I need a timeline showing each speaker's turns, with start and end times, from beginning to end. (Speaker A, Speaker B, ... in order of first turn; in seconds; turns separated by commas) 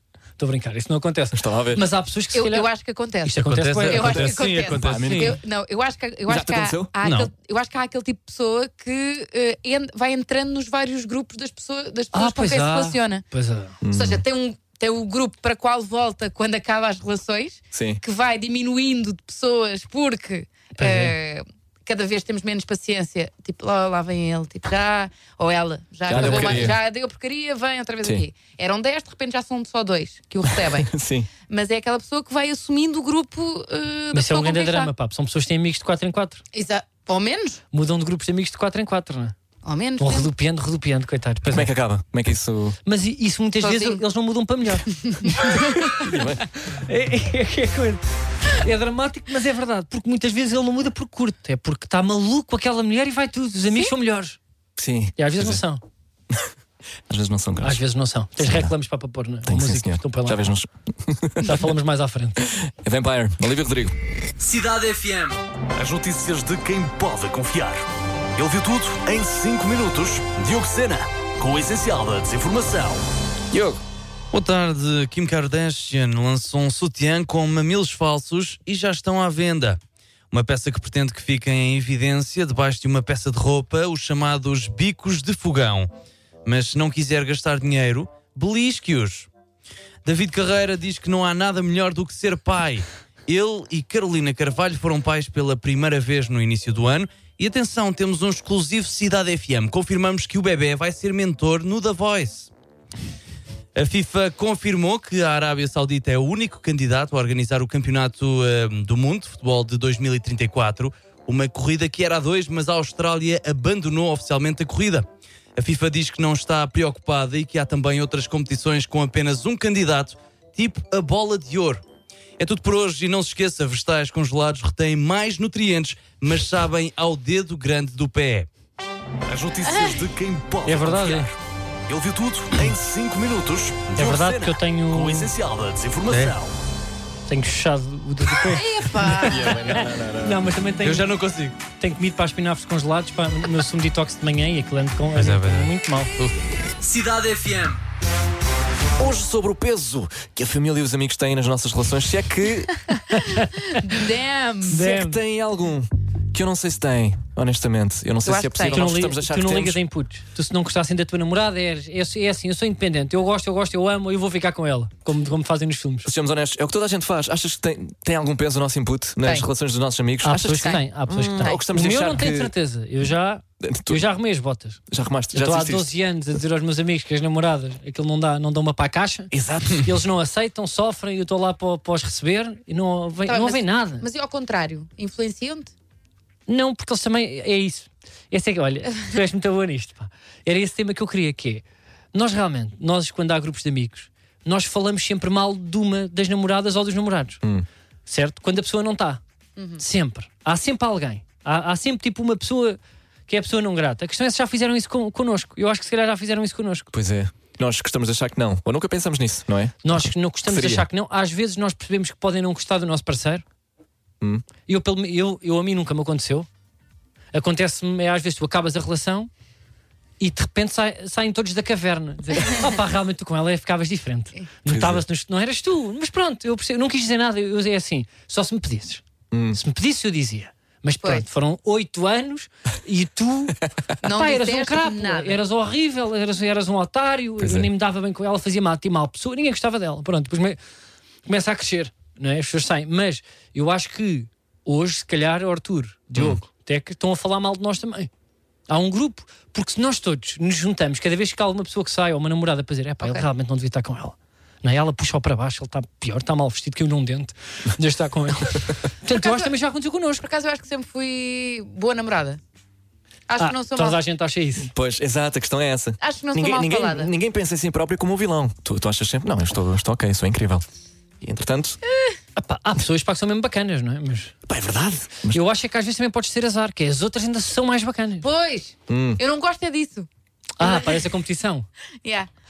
Speaker A: 0.4-2.7, Speaker B: 1.3-1.8, Speaker C: 2.3-13.2, Speaker A: 3.2-4.5, Speaker D: 3.4-5.4, Speaker B: 4.7-5.4, Speaker B: 6.3-6.9, Speaker D: 7.0-7.3, Speaker A: 12.1-13.8, Speaker B: 13.8-14.2, Speaker C: 13.9-30.9, Speaker B: 17.7-18.0, Speaker A: 20.8-21.1, Speaker B: 26.1-26.8, Speaker A: 26.1-26.7, Speaker B: 30.5-31.3, Speaker C: 31.5-34.9, Speaker A: 34.1-36.4, Speaker C: 36.5-37.6, Speaker A: 37.7-39.4, Speaker C: 39.6-40.3, Speaker A: 40.0-41.7, Speaker B: 41.5-42.8, Speaker A: 42.9-45.6, Speaker C: 43.6-44.0, Speaker C: 45.0-45.9, Speaker B: 45.9-46.4, Speaker A: 46.6-54.4, Speaker B: 54.8-55.6, Speaker A: 55.2-55.8, Speaker B: 57.1-57.8, Speaker A: 57.6-60.4, Speaker B: 58.4-58.7, Speaker B: 59.5-61.7, Speaker A: 61.4-62.5, Speaker B: 62.4-64.0, Speaker E: 64.4-65.4, Speaker F: 65.8-67.8, Speaker F: 68.4-73.0, Speaker B: 73.5-73.8, Speaker D: 74.3-79.8, Speaker D: 80.3-85.9, Speaker D: 86.5-89.3, Speaker D: 90.0-102.5, Speaker D: 103.8-121.8, Speaker D: 122.4-128.5, Speaker F: 129.3-131.3, Speaker C: 129.7-130.0, Speaker A: 130.6-131.3, Speaker F: 131.9-136.5, Speaker A: 134.0-135.3, Speaker D: 136.1-136.3, Speaker A: 137.3-141.1, Speaker C: 138.5-139.6, Speaker B: 139.1-140.6, Speaker D: 140.8-141.6, Speaker A: 141.8-146.1, Speaker D: 145.1-146.4, Speaker E: 146.8-147.8, Speaker B: 149.0-153.0, Speaker A: 153.2-153.4, Speaker C: 153.7-154.8, Speaker A: 154.7-155.2, Speaker B: 154.7-159.8, Speaker C: 158.2-158.9, Speaker A: 158.7-166.1, Speaker B: 166.1-172.5, Speaker A: 170.2-174.8, Speaker C: 170.5-170.8, Speaker B: 173.6-174.1, Speaker B: 174.9-175.9, Speaker A: 175.3-184.1, Speaker B: 179.3-179.9, Speaker C: 183.2-185.7, Speaker A: 186.5-191.6, Speaker A: 192.1-197.4, Speaker A: 198.1-199.2, Speaker C: 199.6-199.8, Speaker A: 199.8-206.9, Speaker B: 206.9-210.9, Speaker A: 209.8-213.4, Speaker B: 214.2-214.5, Speaker A: 214.7-216.5, Speaker A: 217.3-219.3, Speaker A: 220.2-240.6, Speaker B: 224.7-225.0, Speaker B: 229.3-229.6, Speaker C: 234.0-235.4, Speaker B: 237.4-237.7, Speaker A: 241.2-248.1, Speaker B: 246.2-246.4, Speaker A: 248.7-260.2, Speaker C: 259.1-259.5, Speaker C: 260.2-262.4, Speaker C: 263.3-264.0, Speaker A: 263.4-264.7, Speaker B: 264.7-270.6, Speaker C: 266.0-267.1, Speaker B: 271.2-271.8, Speaker A: 272.4-274.3, Speaker B: 274.5-275.4, Speaker A: 275.3-278.2, Speaker C: 278.2-280.1, Speaker B: 278.9-279.2, Speaker A: 280.6-281.7, Speaker C: 280.6-281.0, Speaker C: 282.0-282.3